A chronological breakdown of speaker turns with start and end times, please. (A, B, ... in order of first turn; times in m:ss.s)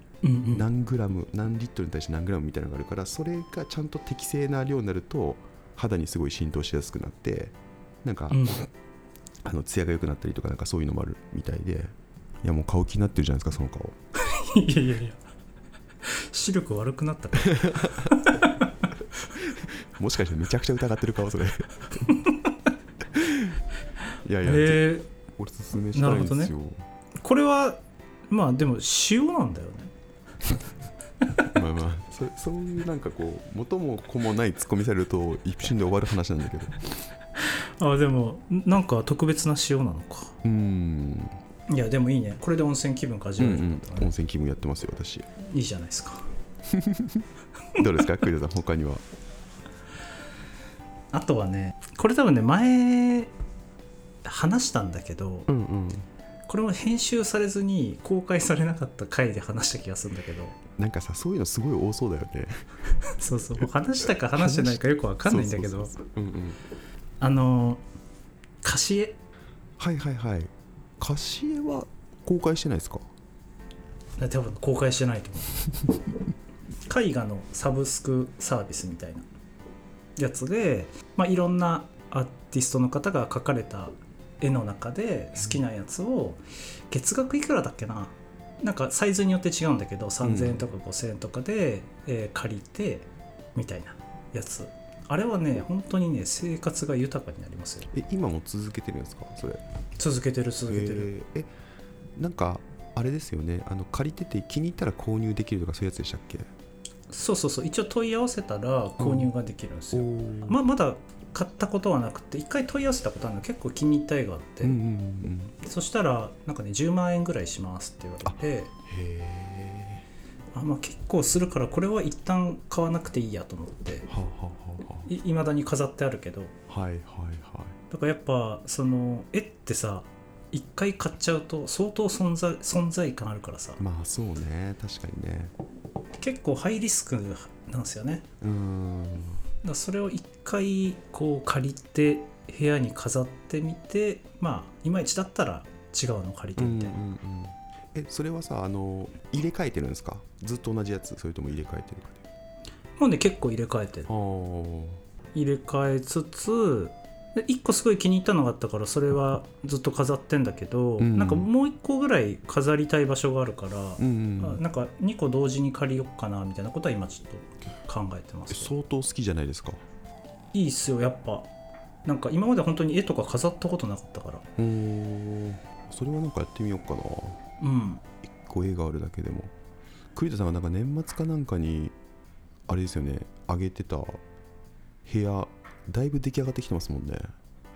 0:00.2-0:00.7 A
0:00.5-0:08.6 B
0:08.3-0:08.6 A
0:09.4-0:14.0 B
0:14.1-0:15.2 A
0:16.0-0:18.9 A
0:17.4-0:18.2 B
0:19.4-0:22.1 B
0:22.1-0:22.5 A
0:23.1-0:23.6 B
0:24.2-0:26.8 B
0:24.4-0:25.1 A
0:25.9-0:26.5 A
0:27.2-0:29.9 A
0:31.5-0:36.8 B
0:37.4-0:40.4 A
0:40.4-0:41.4 B
0:41.7-0:44.1 A
0:43.4-0:45.3 B
0:45.4-0:46.3 A
0:46.7-0:47.2 B
0:47.8-0:49.0 B
0:51.1-0:53.3 A
0:54.2-0:55.5 A
0:55.5-0:56.1 B
0:56.5-1:00.6 A
1:00.8-1:02.5 B
1:03.0-1:05.9 A
1:04.3-1:06.6 B
1:07.2-1:07.8 A
1:08.6-1:09.2 A
1:09.8-1:13.1 B
1:14.2-1:15.5 A
1:16.9-1:19.2 A
1:20.2-1:37.9 A
1:30.2-1:30.6 B
1:37.9-1:39.6 B
1:40.0-1:41.1 A
1:40.7-1:41.5 B
1:42.2-1:46.5 B
1:47.1-1:54.8 A
1:49.0-1:49.3 B
1:49.9-1:50.6 B
1:54.6-1:55.5 B
1:55.6-1:58.7 A
1:58.2-2:00.0 B
2:00.5-2:04.1 A
2:04.1-2:05.1 B
2:05.1-2:06.5 A
2:06.7-2:07.8 B
2:07.9-2:13.8 A
2:13.8-2:15.5 B
2:16.2-2:18.2 A
2:18.4-2:19.4 B
2:19.6-2:27.0 A
2:26.6-2:32.2 B
2:33.0-2:34.1 A
2:34.1-2:35.0 B
2:35.3-2:48.7 A
2:41.0-2:41.5 B
2:44.0-2:44.6 B
2:48.5-2:49.8 B
2:50.5-2:51.5 A
2:52.0-2:54.4 A
2:54.6-2:57.4 B
2:57.6-2:58.0 A
2:58.4-2:59.5 B
3:00.1-3:01.9 B
3:02.7-3:04.2 B
3:05.0-3:07.3 B